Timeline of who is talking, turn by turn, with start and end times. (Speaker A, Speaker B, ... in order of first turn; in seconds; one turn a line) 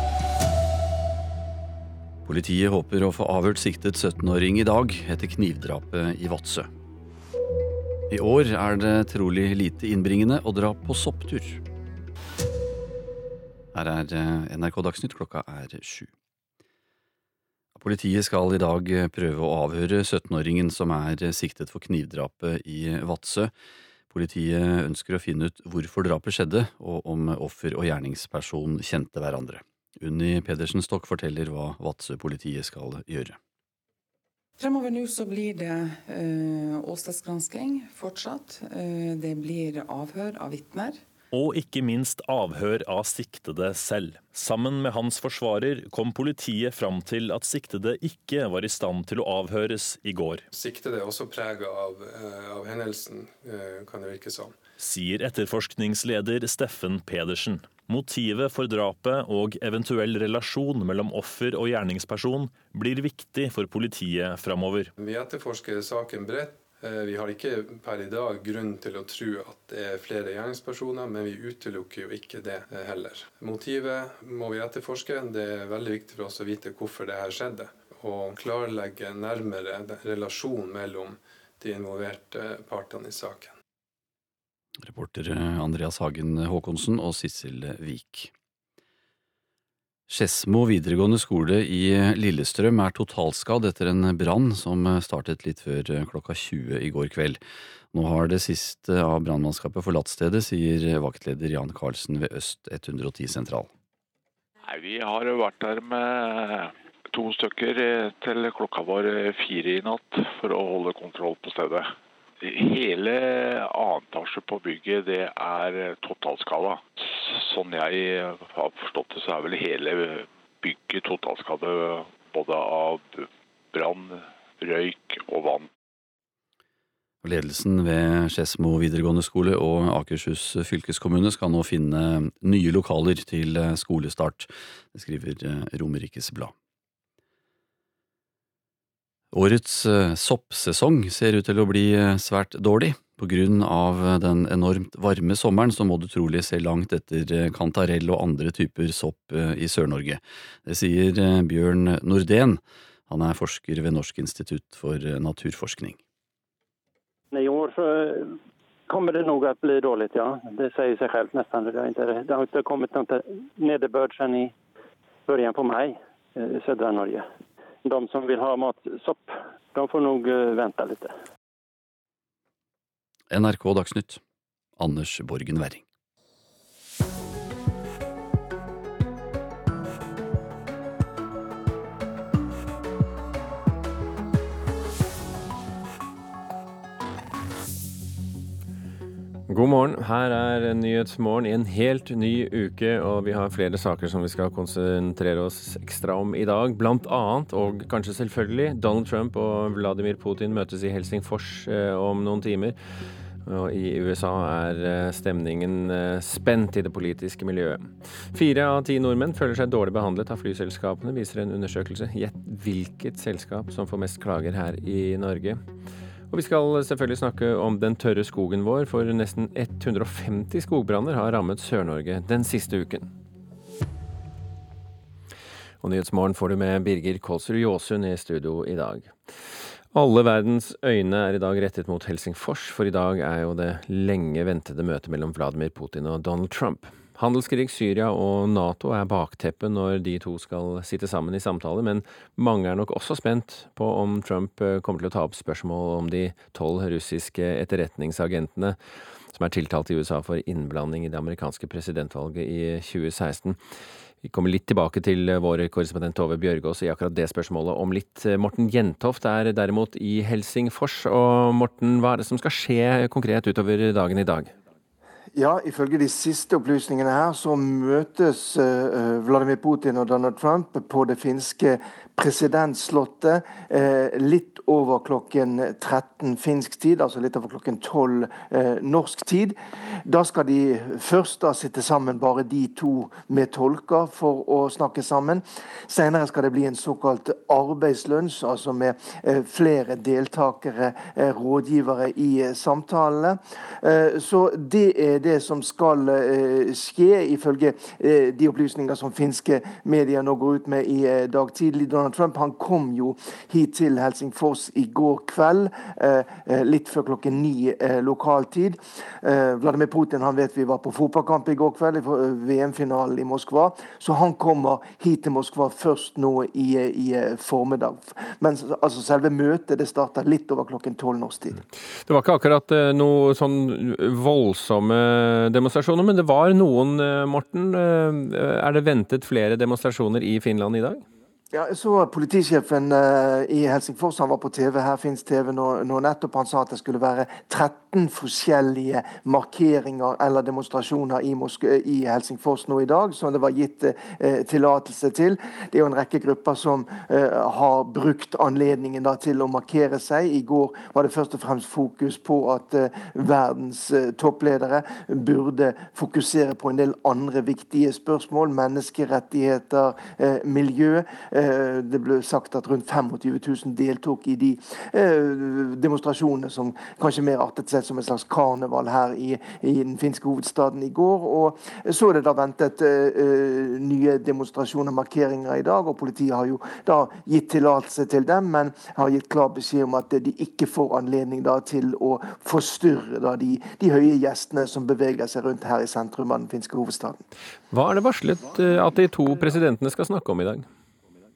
Speaker A: 2.2-6.7
Speaker A: 8.1-11.6
Speaker A: 13.7-16.1
Speaker A: 17.7-23.5
Speaker A: 24.1-33.4
Speaker B: 34.6-41.0
Speaker C: 41.3-50.5
Speaker D: 50.5-54.6
Speaker C: 54.8-64.9
Speaker D: 65.0-83.5
Speaker A: 84.8-88.3
Speaker A: 90.1-97.4
Speaker A: 97.9-103.7
Speaker E: 104.7-125.7
Speaker A: 127.2-136.5
Speaker A: 139.3-156.0
Speaker F: 157.3-158.3
Speaker F: 158.9-164.5
Speaker F: 165.3-167.3
Speaker F: 167.8-171.1
Speaker A: 173.3-174.2
Speaker A: 174.8-175.8
Speaker G: 189.5-202.8
Speaker G: 203.4-215.6
Speaker G: 216.3-223.1
Speaker G: 225.8-229.1
Speaker G: 229.9-248.8
Speaker G: 249.3-253.6
Speaker G: 254.2-264.5
Speaker H: 265.3-321.6
Speaker G: 322.0-331.0
Speaker H: 331.5-387.2
Speaker G: 387.7-390.6